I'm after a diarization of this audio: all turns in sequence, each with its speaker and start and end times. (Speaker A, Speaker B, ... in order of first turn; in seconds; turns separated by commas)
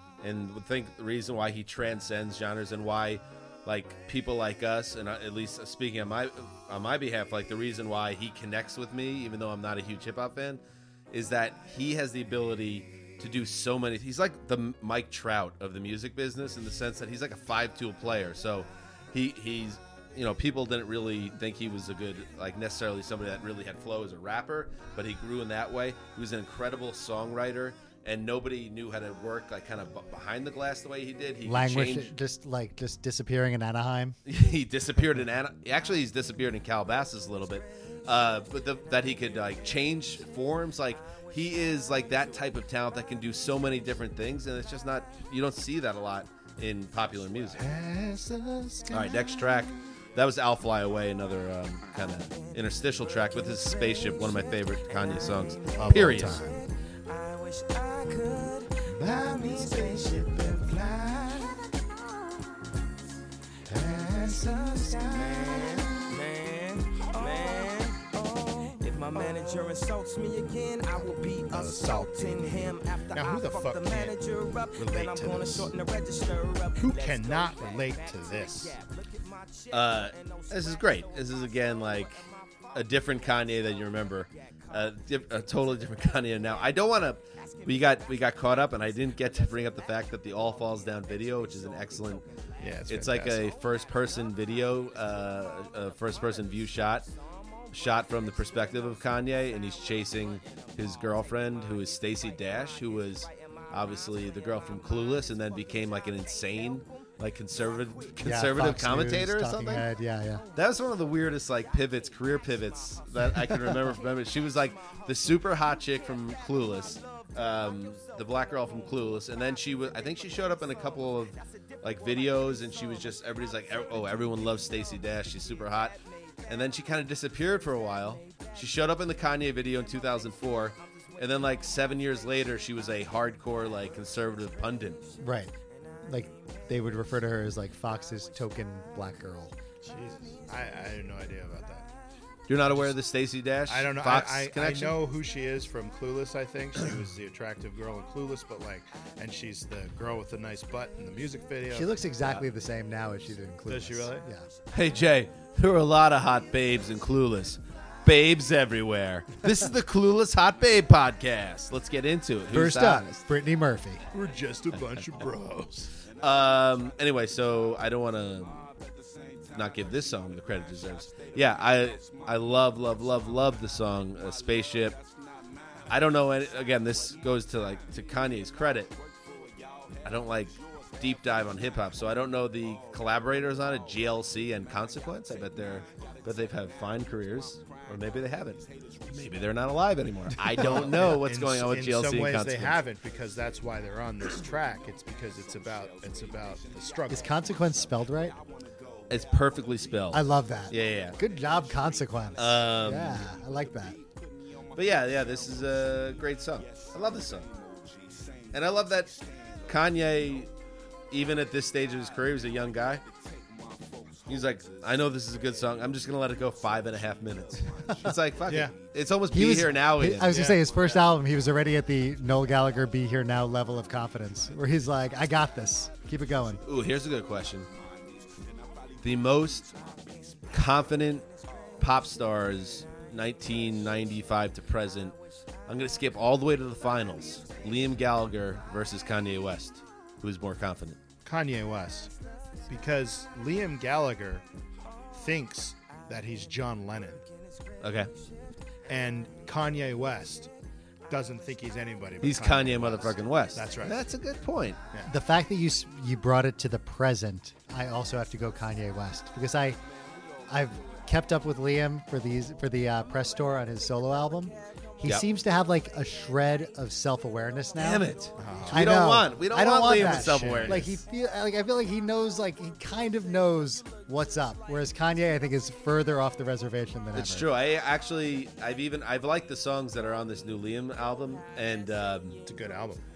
Speaker A: 0.2-32.1, Speaker B: 31.4-34.2, Speaker A: 34.2-47.7, Speaker C: 47.5-49.8, Speaker A: 48.9-56.4, Speaker D: 55.1-61.6, Speaker C: 55.8-56.6, Speaker C: 58.9-61.5, Speaker C: 63.7-66.1, Speaker D: 63.7-80.3, Speaker C: 70.9-74.2, Speaker C: 74.7-75.7, Speaker C: 76.8-78.8, Speaker A: 79.7-92.2, Speaker C: 92.6-93.5, Speaker A: 92.9-97.1, Speaker A: 97.7-109.9, Speaker B: 108.2-110.4, Speaker A: 110.5-135.0, Speaker B: 135.2-139.5, Speaker C: 139.8-141.9, Speaker A: 142.5-145.0, Speaker C: 143.7-152.4, Speaker B: 151.7-154.5, Speaker C: 153.6-154.3, Speaker A: 154.7-163.2, Speaker B: 162.5-164.0, Speaker C: 164.1-165.9, Speaker A: 166.2-168.7, Speaker A: 169.5-175.0, Speaker A: 175.9-178.9, Speaker A: 180.0-192.8, Speaker C: 190.5-197.3, Speaker B: 197.1-198.4, Speaker A: 199.1-201.2, Speaker B: 200.1-204.0, Speaker A: 202.3-203.2, Speaker A: 204.7-207.5, Speaker A: 208.5-210.5, Speaker A: 211.1-213.0, Speaker A: 214.2-220.6, Speaker C: 218.4-218.8, Speaker B: 219.3-226.6, Speaker C: 220.2-220.7, Speaker A: 226.6-227.7, Speaker A: 229.0-229.8, Speaker A: 230.5-231.2, Speaker A: 231.8-235.2, Speaker A: 235.7-241.0, Speaker C: 241.2-242.1, Speaker C: 242.7-244.4, Speaker C: 245.1-247.2, Speaker A: 247.8-248.1, Speaker C: 248.9-250.5, Speaker C: 251.1-254.0, Speaker A: 252.2-254.8, Speaker B: 255.1-259.8, Speaker B: 260.5-268.1, Speaker A: 267.8-271.0, Speaker C: 268.4-268.9, Speaker B: 268.7-277.5, Speaker C: 269.8-271.0, Speaker A: 277.1-282.4, Speaker C: 282.4-283.0